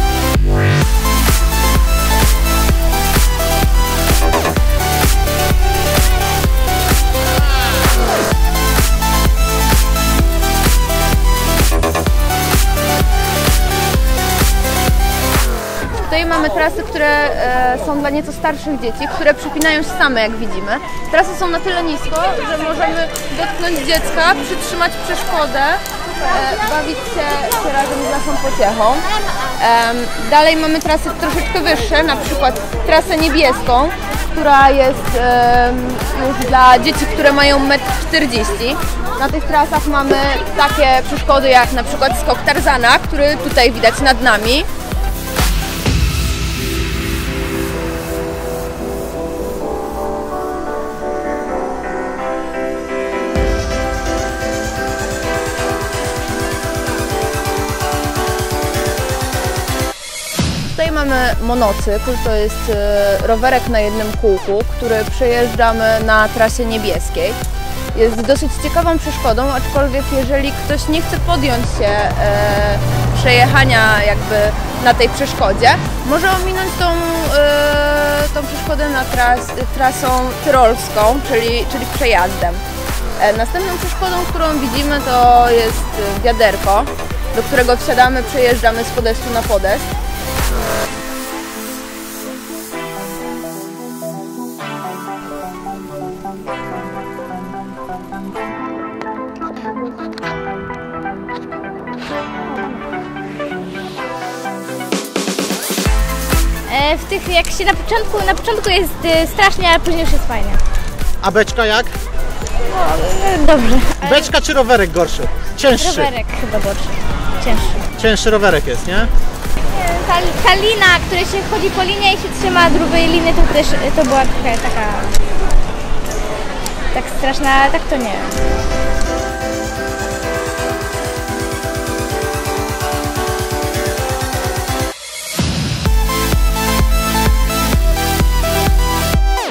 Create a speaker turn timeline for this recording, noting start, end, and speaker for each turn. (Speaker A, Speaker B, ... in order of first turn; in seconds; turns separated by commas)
Speaker A: 16.0-44.7, Speaker A: 60.7-67.4, Speaker A: 67.9-82.6, Speaker A: 83.2-89.9, Speaker B: 106.7-110.6, Speaker C: 111.2-112.0, Speaker B: 112.7-114.3, Speaker C: 114.0-116.1, Speaker B: 115.8-117.9, Speaker C: 118.0-119.1, Speaker B: 119.7-125.2, Speaker B: 126.9-128.5